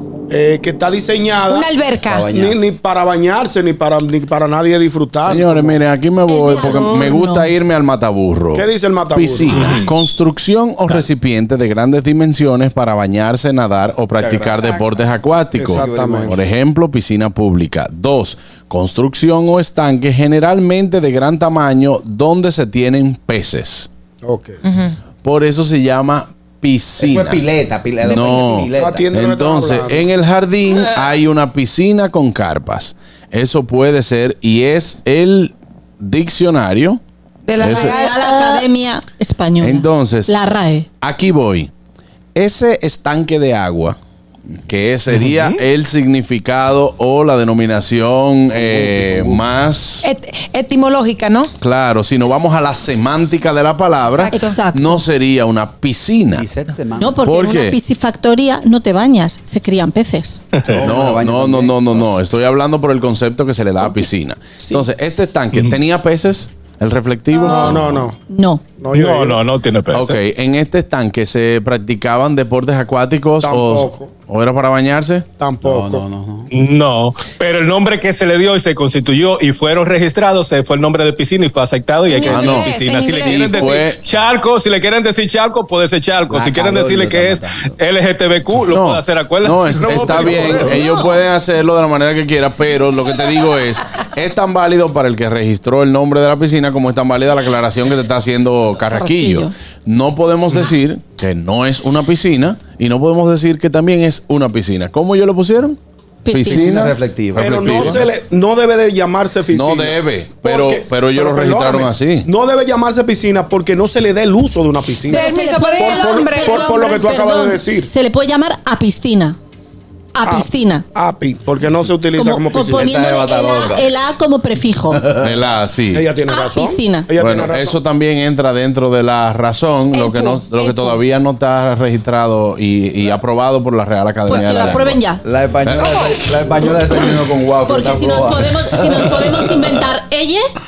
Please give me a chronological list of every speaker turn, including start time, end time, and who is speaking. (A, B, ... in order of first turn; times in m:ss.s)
0:00.3-0:01.7 A
0:01.5-0:02.3 B
0:02.0-0:02.7 C
0:02.3-0:05.8 A
0:05.2-0:23.9 D
0:06.2-0:07.5 E
0:08.5-0:09.7 A
0:09.5-0:09.9 F
0:14.2-0:14.8 C
0:15.5-0:16.4 A
0:15.6-0:16.4 C
0:24.2-0:24.6 A
0:24.7-0:24.9 B
0:25.2-0:27.4 D
0:27.0-0:29.1 C
0:28.0-0:37.0 D
0:28.7-0:30.1 A
0:37.4-0:38.7 B
0:37.6-0:38.0 D
0:37.6-0:40.9 E
0:39.6-0:40.4 D
0:41.0-0:41.7 D
0:42.3-0:44.0 D
0:44.6-0:50.1 D
0:45.2-0:45.6 F
0:48.5-0:49.5 C
0:50.0-0:51.5 B
0:51.6-0:56.4 D
0:54.1-0:54.6 B
0:54.3-0:55.0 E
0:56.3-0:57.2 C
0:57.0-1:00.4 E
0:57.2-0:57.8 D
1:00.7-1:02.1 C
1:00.8-1:08.1 D
1:07.4-1:08.2 A
1:08.3-1:08.6 E
1:08.8-1:09.4 A
1:08.9-1:10.2 F
1:09.9-1:15.3 D
1:13.4-1:14.1 A
1:15.4-1:16.0 A
1:15.6-1:16.5 C
1:16.5-1:30.6 F
1:22.1-1:23.8 B
1:22.2-1:24.0 D
1:26.3-1:27.8 C
1:28.7-1:45.8 D
1:29.9-1:30.7 A
1:30.7-1:31.0 E
1:38.9-1:39.5 E
1:46.2-1:46.9 E
1:46.3-1:48.0 D
1:46.5-1:48.0 C
1:47.4-1:57.9 A
1:49.5-1:52.3 D
1:55.1-1:59.4 E
1:55.1-1:57.0 B
2:00.1-2:00.8 E
2:00.2-2:02.8 A
2:02.1-2:05.0 E
2:02.7-2:03.9 C
2:04.9-2:05.3 C
2:05.2-2:06.0 D
2:05.9-2:07.8 A
2:06.2-2:07.1 E
2:07.2-2:15.0 D
2:09.9-2:10.6 B
2:10.6-2:11.0 E
2:14.2-2:15.2 E
2:14.4-2:19.6 C
2:15.6-2:16.1 D
2:17.6-2:20.4 E